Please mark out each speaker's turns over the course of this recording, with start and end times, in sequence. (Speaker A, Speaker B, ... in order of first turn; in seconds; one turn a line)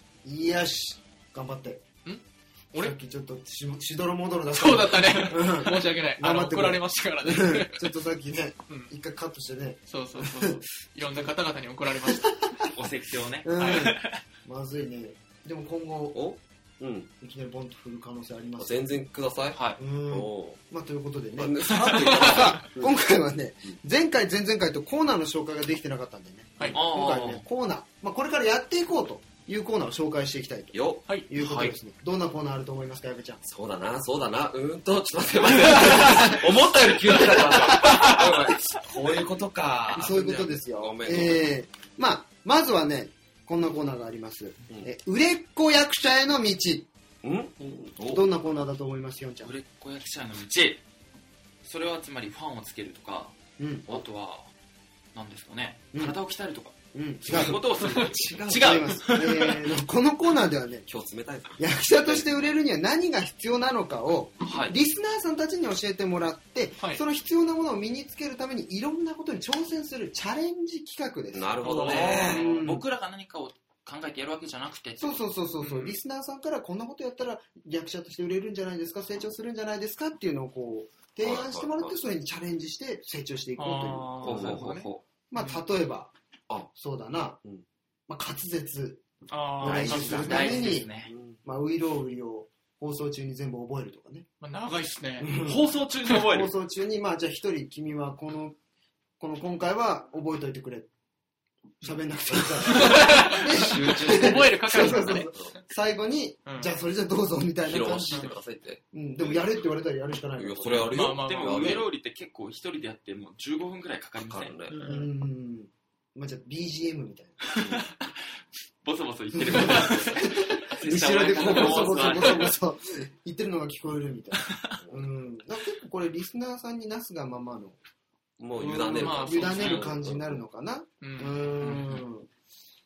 Speaker A: 0.2-1.8
Speaker B: 2.0-2.9
Speaker A: 2.8-11.3
Speaker B: 4.5-7.9
Speaker B: 9.9-12.5
Speaker A: 12.1-12.7
Speaker C: 12.7-14.2
Speaker A: 13.4-16.2
Speaker B: 13.6-13.9
Speaker D: 16.1-17.1
Speaker A: 17.2-18.9
Speaker D: 18.6-20.6
Speaker A: 19.8-30.8
Speaker D: 21.4-22.9
Speaker B: 21.7-22.6
Speaker C: 26.7-27.4
Speaker D: 30.7-31.0
Speaker A: 31.3-33.4
Speaker C: 31.4-31.7
Speaker D: 33.4-41.5
Speaker A: 35.8-36.3
Speaker B: 35.9-36.2
Speaker B: 37.2-38.4
Speaker A: 39.9-46.9
Speaker D: 47.2-48.2
Speaker A: 48.1-49.5
Speaker C: 49.4-50.8
Speaker C: 51.6-53.4
Speaker A: 53.6-54.0
Speaker C: 53.9-54.5
Speaker C: 55.1-59.8
Speaker A: 55.9-56.2
Speaker A: 56.9-57.6
Speaker D: 57.3-58.9
Speaker A: 58.5-60.9
Speaker D: 60.9-62.2
Speaker A: 61.6-72.8
Speaker C: 64.4-64.7
Speaker D: 71.3-72.4
Speaker B: 71.6-72.5
Speaker C: 71.8-75.2
Speaker A: 75.0-84.6
Speaker B: 75.6-76.0
Speaker D: 81.2-82.0
Speaker B: 83.6-85.6
Speaker D: 84.2-85.0
Speaker A: 85.3-86.1
Speaker A: 86.7-87.4
Speaker A: 88.1-89.0
Speaker B: 89.3-90.7
Speaker A: 89.6-90.9
Speaker D: 89.6-91.4
Speaker C: 89.7-91.1
Speaker A: 91.4-94.2
Speaker B: 94.4-95.3
Speaker A: 95.2-98.6
Speaker C: 95.4-96.5
Speaker A: 99.2-100.9
Speaker A: 101.8-108.3
Speaker D: 102.7-105.5
Speaker B: 102.7-105.5
Speaker B: 106.5-106.7
Speaker D: 107.7-108.8
Speaker A: 108.9-110.9
Speaker D: 110.4-111.9
Speaker C: 110.7-114.6
Speaker B: 110.9-111.8
Speaker D: 114.2-114.8
Speaker A: 114.7-117.4
Speaker B: 114.7-115.0
Speaker C: 117.5-118.1
Speaker C: 118.8-122.5
Speaker A: 119.3-127.8
Speaker B: 119.5-120.0
Speaker D: 121.4-122.0
Speaker D: 128.4-130.4
Speaker B: 128.6-129.8
Speaker A: 128.6-132.3
Speaker B: 131.0-131.4
Speaker C: 131.6-132.0